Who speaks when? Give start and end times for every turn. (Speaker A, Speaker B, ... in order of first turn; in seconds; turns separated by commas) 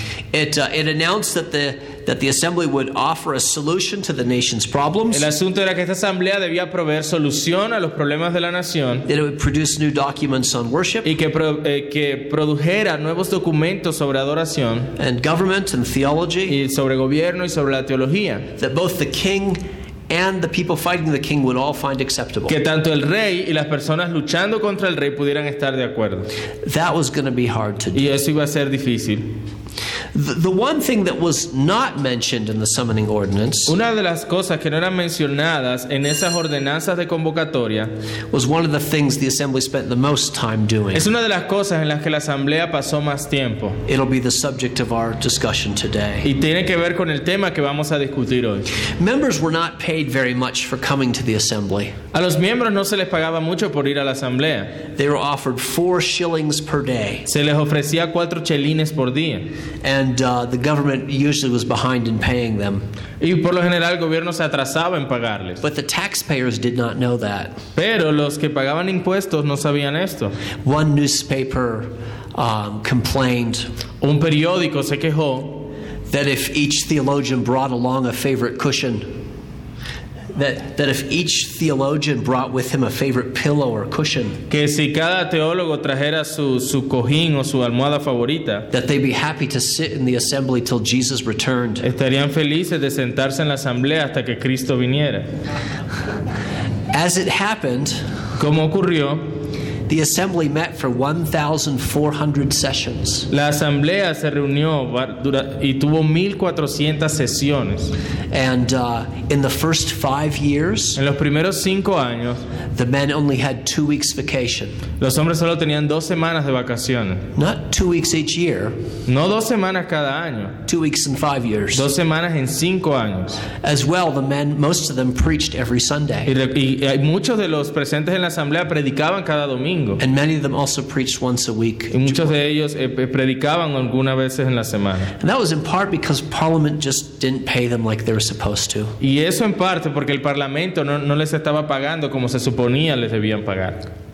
Speaker A: 0.3-5.3, Speaker B: 5.1-9.1, Speaker A: 9.1-11.1, Speaker B: 11.0-14.9, Speaker A: 15.0-16.6, Speaker B: 16.5-18.5, Speaker A: 18.6-22.6, Speaker B: 22.5-26.3, Speaker A: 26.6-28.1, Speaker B: 27.9-29.4, Speaker A: 30.1-33.8, Speaker B: 33.7-37.9, Speaker A: 38.3-41.1, Speaker B: 40.9-43.8, Speaker A: 43.9-46.3, Speaker B: 46.2-48.6, Speaker A: 49.0-52.0, Speaker B: 52.1-54.8, Speaker A: 55.0-57.3, Speaker B: 57.3-59.5, Speaker A: 59.8-62.9, Speaker B: 63.2-65.6, Speaker A: 65.6-67.6, Speaker B: 67.8-70.4, Speaker A: 70.6-73.7, Speaker B: 74.0-75.7, Speaker A: 76.1-79.2, Speaker A: 80.3-84.4, Speaker B: 84.5-88.7, Speaker A: 88.7-91.8, Speaker B: 91.8-95.3, Speaker A: 96.9-98.0, Speaker B: 98.4-99.3, Speaker A: 99.9-103.3, Speaker B: 103.3-107.9, Speaker A: 108.3-111.0, Speaker B: 111.0-112.5, Speaker A: 112.8-114.8, Speaker B: 115.0-117.3, Speaker A: 117.3-118.8, Speaker B: 119.1-120.6, Speaker A: 120.7-121.9, Speaker B: 121.7-123.5, Speaker A: 123.6-126.3, Speaker B: 126.3-130.0, Speaker A: 130.0-132.3, Speaker B: 131.9-135.2, Speaker A: 135.2-138.9, Speaker B: 139.0-143.9